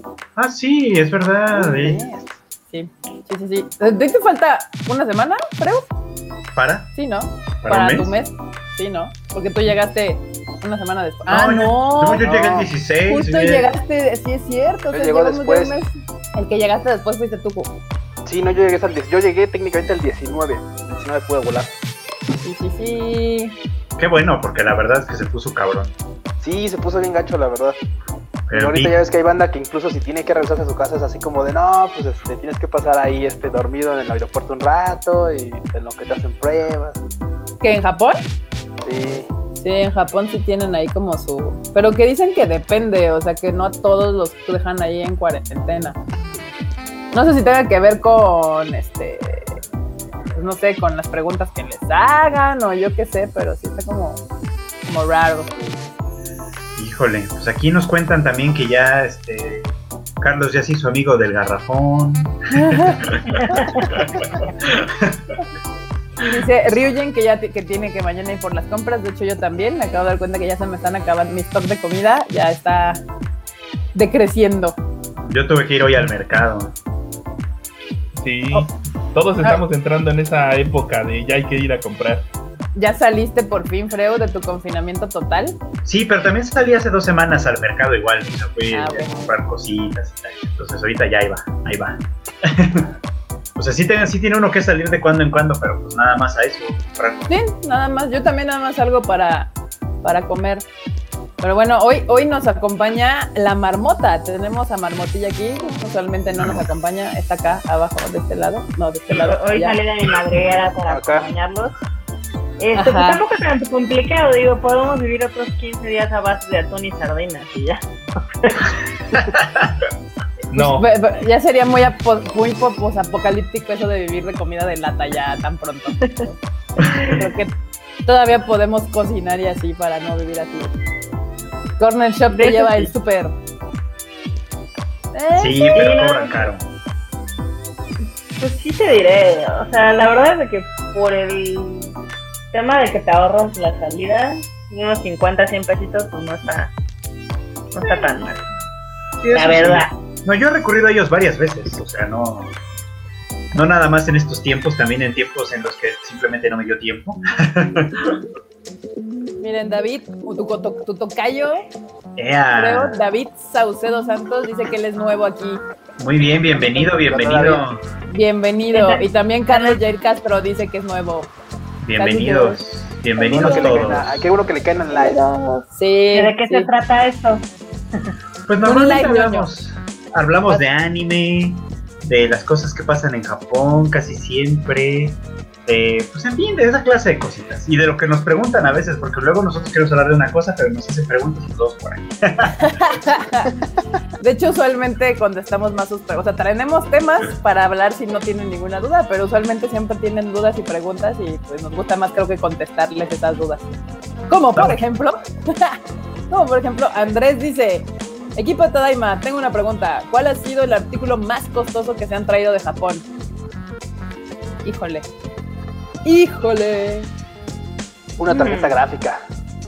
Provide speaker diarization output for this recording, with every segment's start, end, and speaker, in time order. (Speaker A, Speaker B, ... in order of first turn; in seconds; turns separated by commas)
Speaker A: 0.3-2.0, Speaker B: 1.5-2.4, Speaker C: 2.7-5.9, Speaker A: 6.5-6.9, Speaker C: 6.9-12.3, Speaker A: 7.6-8.1, Speaker A: 11.3-13.7, Speaker B: 12.2-12.7, Speaker C: 13.1-17.7, Speaker B: 14.9-15.8, Speaker B: 18.2-21.7, Speaker C: 22.4-23.6, Speaker A: 24.0-25.9, Speaker B: 26.4-27.8, Speaker A: 28.5-29.0, Speaker B: 28.5-37.0, Speaker C: 37.6-38.2, Speaker B: 38.8-39.3, Speaker C: 39.6-46.0, Speaker C: 47.1-49.6, Speaker C: 50.3-54.2, Speaker C: 54.8-55.5, Speaker A: 56.8-65.3, Speaker C: 62.5-63.0, Speaker D: 63.4-63.9, Speaker C: 66.2-73.0, Speaker C: 73.9-74.8, Speaker A: 75.2-76.7, Speaker E: 78.2-82.2, Speaker C: 82.8-85.6, Speaker A: 85.8-92.9, Speaker C: 88.7-89.3, Speaker A: 93.5-97.3, Speaker C: 97.3-99.5, Speaker C: 100.0-100.6, Speaker C: 101.4-109.8, Speaker A: 106.4-106.6, Speaker D: 109.1-111.7, Speaker B: 110.9-111.3, Speaker D: 112.6-118.7, Speaker C: 112.8-113.2, Speaker A: 119.1-119.7, Speaker E: 120.5-120.8, Speaker C: 120.5-126.2, Speaker A: 126.8-127.2, Speaker C: 127.0-127.5, Speaker C: 128.0-130.7, Speaker C: 131.8-133.3, Speaker D: 132.3-132.9, Speaker C: 135.1-135.9, Speaker A: 135.4-136.6, Speaker D: 135.7-136.5, Speaker D: 138.4-141.9, Speaker D: 142.5-146.7, Speaker D: 147.7-148.4, Speaker A: 149.2-152.5, Speaker D: 149.3-149.9, Speaker A: 153.5-158.2, Speaker C: 159.4-161.6, Speaker A: 162.2-163.0, Speaker C: 162.5-165.6, Speaker A: 166.0-167.8, Speaker B: 166.7-167.6, Speaker C: 168.1-171.3, Speaker D: 168.7-169.8, Speaker A: 171.8-174.2, Speaker C: 172.0-172.6, Speaker B: 173.2-175.2, Speaker C: 173.4-173.8, Speaker C: 174.9-176.7, Speaker D: 176.1-177.4, Speaker A: 178.5-193.0, Speaker C: 178.6-179.5, Speaker C: 192.7-193.5, Speaker C: 194.2-203.7, Speaker C: 204.3-205.8, Speaker A: 204.6-204.8, Speaker C: 206.3-213.0, Speaker C: 214.6-215.1, Speaker C: 216.0-217.1, Speaker B: 218.2-219.2, Speaker D: 218.3-218.8